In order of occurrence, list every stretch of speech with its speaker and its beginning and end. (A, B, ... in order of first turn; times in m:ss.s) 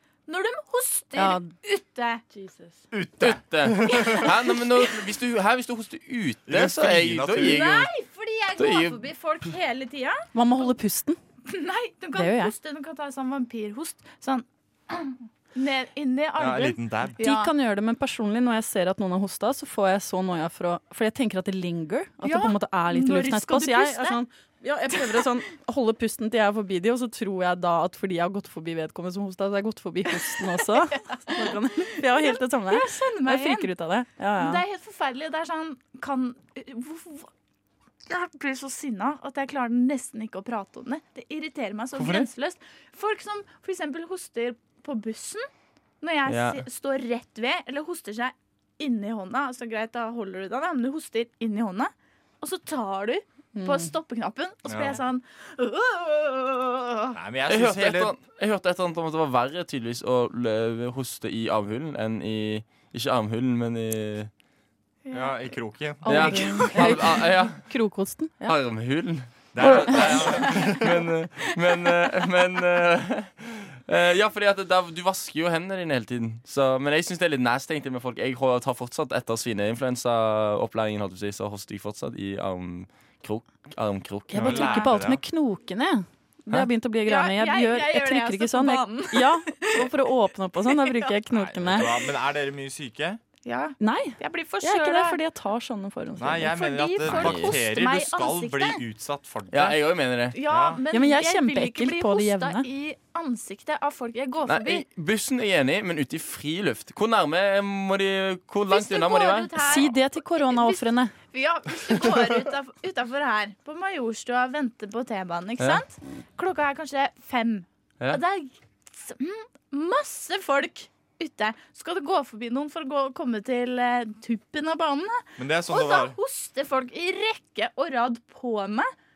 0:00.3-0:02.2 A
0:01.2-0:01.5 B
0:02.4-0:02.7 B
0:02.9-0:04.2 C
0:03.2-0:07.9 D
0:03.8-0:04.6 A
0:06.5-0:07.7 C
0:07.4-0:10.2 A
0:08.6-0:09.0 D
0:10.3-0:11.2 B
0:11.5-0:17.5 A
0:12.2-0:12.5 B
0:16.4-0:17.2 C
0:17.2-0:34.6 B
0:22.2-0:24.2 A
0:32.2-0:33.7 A
0:34.4-0:37.3 A
0:38.1-0:45.5 A
0:41.9-0:42.3 D
0:46.0-0:57.2 A
0:46.3-0:46.6 D
0:53.6-0:53.9 B
0:54.7-0:55.0 C
0:57.1-0:58.2 C
0:57.5-1:04.3 D
1:05.1-1:05.5 A
1:05.1-1:06.6 C
1:06.0-1:08.6 B
1:06.1-1:06.9 A
1:06.1-1:07.6 D
1:08.4-1:24.9 D
1:09.6-1:11.0 C
1:24.3-1:31.9 B
1:24.4-1:25.2 C
1:27.1-1:29.9 A
1:30.7-1:31.1 A
1:31.3-1:33.2 C
1:33.4-1:35.2 A
1:33.8-1:36.8 B
1:36.2-1:39.8 C
1:36.5-1:38.8 A
1:37.0-1:37.6 D
1:39.5-1:40.4 D
1:40.3-1:44.8 A
1:40.4-1:40.8 C
1:40.9-1:42.7 B
1:44.5-1:49.8 D
1:48.7-2:08.9 A
1:49.6-1:51.1 B
2:05.4-2:06.2 C